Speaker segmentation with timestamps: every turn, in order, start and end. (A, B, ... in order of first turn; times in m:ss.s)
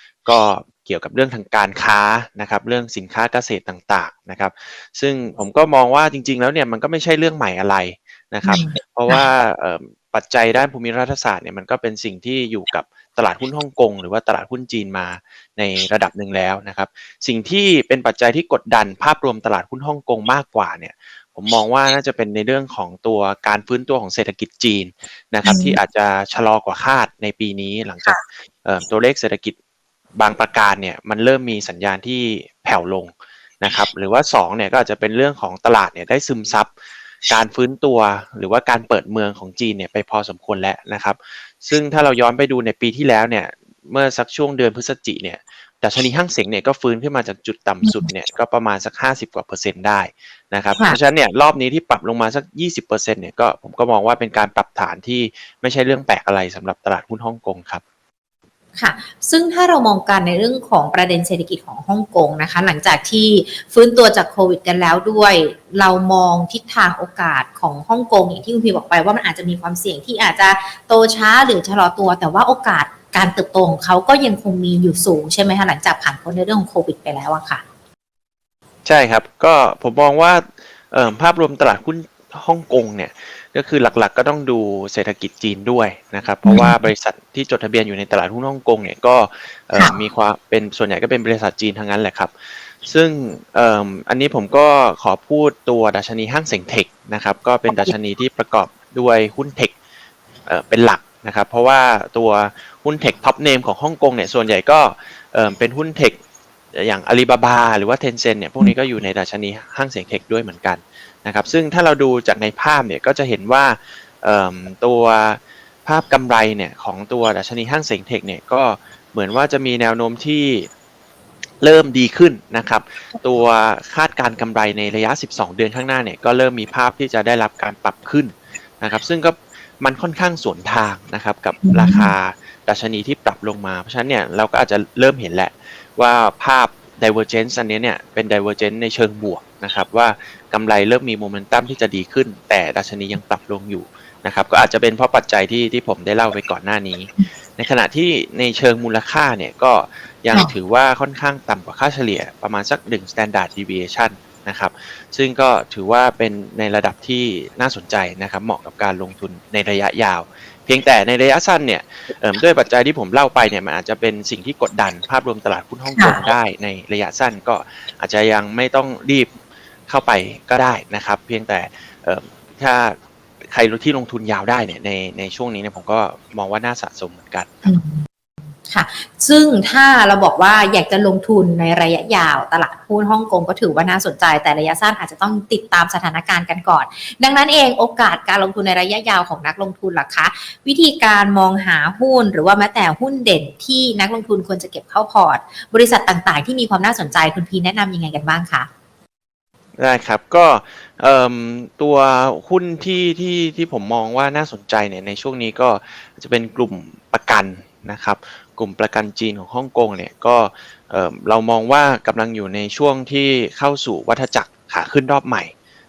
0:00.2-0:29.5 A
0:08.4-0:09.2 B
0:25.4-0:25.8 B
0:30.2-0:36.7 A
0:37.3-0:57.8 A
0:58.8-1:17.6 B
1:18.8-1:39.7 A
1:26.4-1:26.8 B
1:37.7-1:37.9 B
1:40.5-1:46.2 A
1:46.7-2:00.7 A
2:01.6-2:49.3 A
2:11.6-2:12.1 B
2:46.0-2:46.2 B
2:49.9-2:53.0 A
2:53.5-2:57.7 A
2:57.6-2:58.0 B
2:58.7-3:18.7 B
3:19.8-3:35.5 A